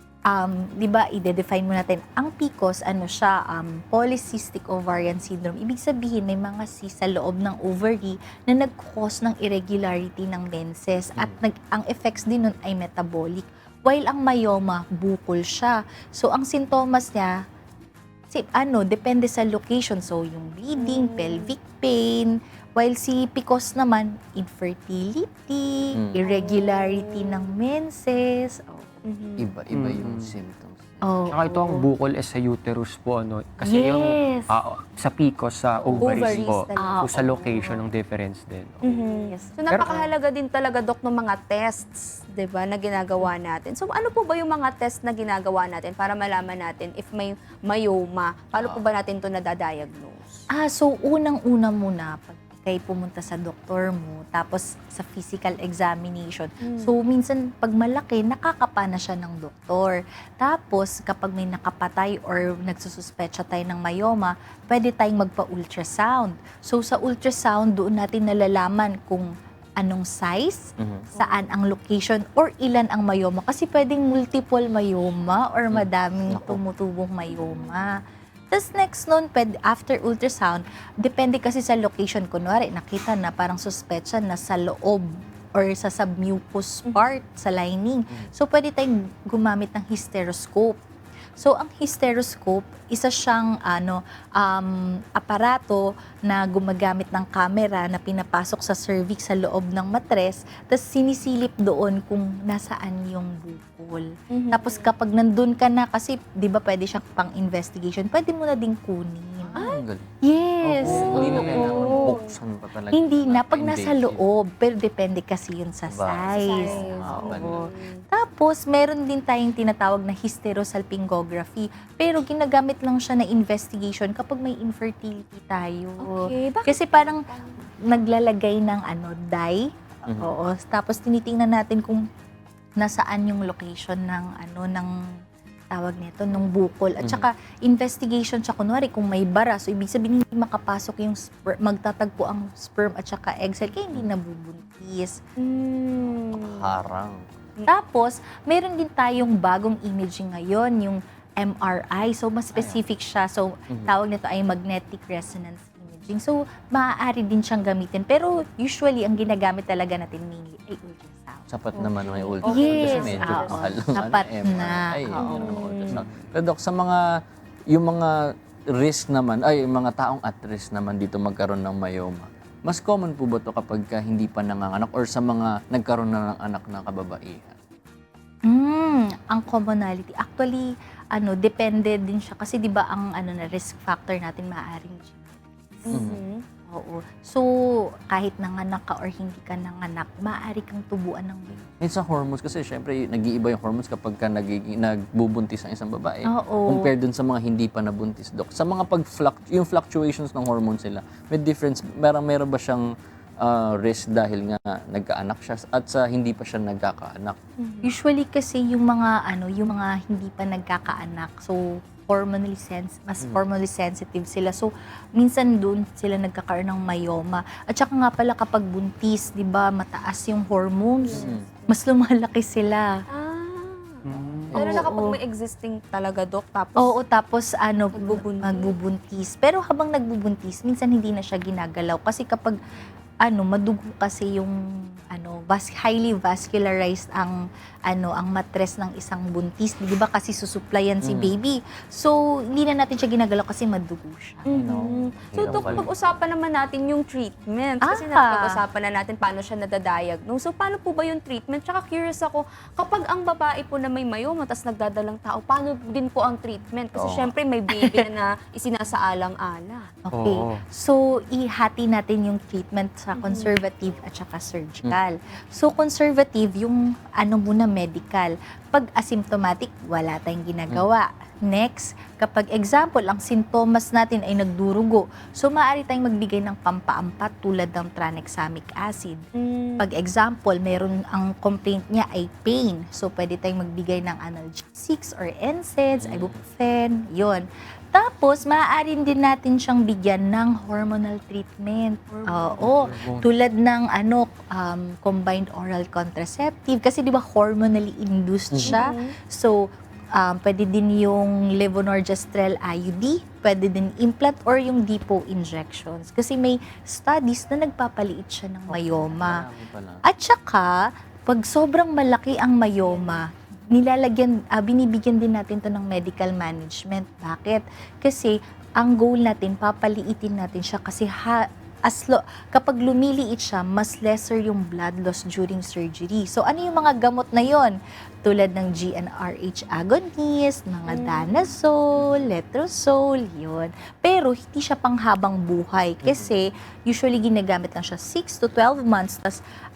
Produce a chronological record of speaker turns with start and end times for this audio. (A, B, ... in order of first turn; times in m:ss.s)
0:00.3-0:17.3 A
0:18.3-0:29.0 A
0:20.7-0:21.6 B
0:25.9-0:26.2 C
0:26.2-0:27.4 B
0:29.0-0:29.5 B
0:29.4-0:31.2 C
0:29.7-0:30.3 D
0:31.0-0:31.9 A
0:31.3-0:39.0 D
0:33.6-0:34.6 A
0:35.8-0:37.8 A
0:36.0-0:37.2 B
0:38.8-0:50.4 B
0:39.7-0:40.1 D
0:48.5-0:48.8 C
0:50.6-1:09.3 A
0:56.6-0:57.0 B
1:09.8-1:10.6 A
1:10.8-1:11.1 C
1:11.2-1:11.4 B
1:11.2-1:17.9 A
1:15.7-1:16.6 C
1:17.3-1:17.8 B
1:18.5-1:30.8 A
1:26.9-1:27.2 B
1:31.4-1:49.6 A
1:44.3-1:44.9 B
1:49.5-1:50.1 C
1:50.2-1:52.2 A
1:50.6-1:54.2 C
1:50.8-1:52.1 D
1:50.9-1:52.3 B
1:52.9-2:07.2 A
1:55.9-1:57.7 C
1:56.4-1:58.0 B
2:06.0-2:07.5 B
2:07.9-2:12.0 A
2:10.1-2:10.4 C
2:12.8-2:14.9 A
2:15.7-2:25.2 A
2:17.0-2:17.3 C
2:25.4-2:26.7 B
2:26.3-2:27.2 C
2:27.7-2:41.5 A
2:32.5-2:32.8 C
2:41.5-2:47.1 C
2:41.8-2:43.7 B
2:42.4-2:45.8 A
2:45.2-2:46.0 B
2:47.7-2:48.2 C
2:48.8-2:57.6 C
2:58.5-3:06.0 A
3:05.9-3:06.4 B
3:05.9-3:06.2 C
3:06.7-3:07.5 A
3:08.1-3:11.6 A
3:11.7-3:22.9 C
3:16.3-3:16.9 A
3:23.4-3:27.4 C
3:27.6-3:27.9 B
3:27.8-3:42.9 A
3:41.0-3:41.7 B
3:41.1-3:41.5 C
3:43.1-3:44.0 B
3:44.1-3:44.7 D
3:44.5-3:47.0 B
3:44.6-3:45.2 A
3:46.8-3:52.6 A
3:47.9-3:48.8 B
3:53.3-3:54.6 A
3:55.1-3:57.4 A
3:57.9-4:04.6 A
4:01.0-4:01.3 C
4:04.5-4:19.9 B
4:04.5-4:05.9 C
4:05.4-4:05.9 D
4:07.8-4:08.6 A
4:17.0-4:17.3 C
4:20.1-4:39.2 A
4:20.1-4:20.6 D
4:23.1-4:23.6 B
4:39.4-4:39.9 B
4:39.8-4:59.6 A
4:46.0-4:46.4 C
4:52.1-4:52.9 B
4:52.7-4:53.2 C
4:58.5-4:58.8 C
4:58.6-4:59.1 B
5:00.2-5:09.5 A
5:08.7-5:10.0 C
5:10.0-5:10.8 A
5:11.3-5:39.4 A
5:12.8-5:13.2 B
5:30.9-5:31.5 B
5:32.0-5:32.3 C
5:36.0-5:36.4 C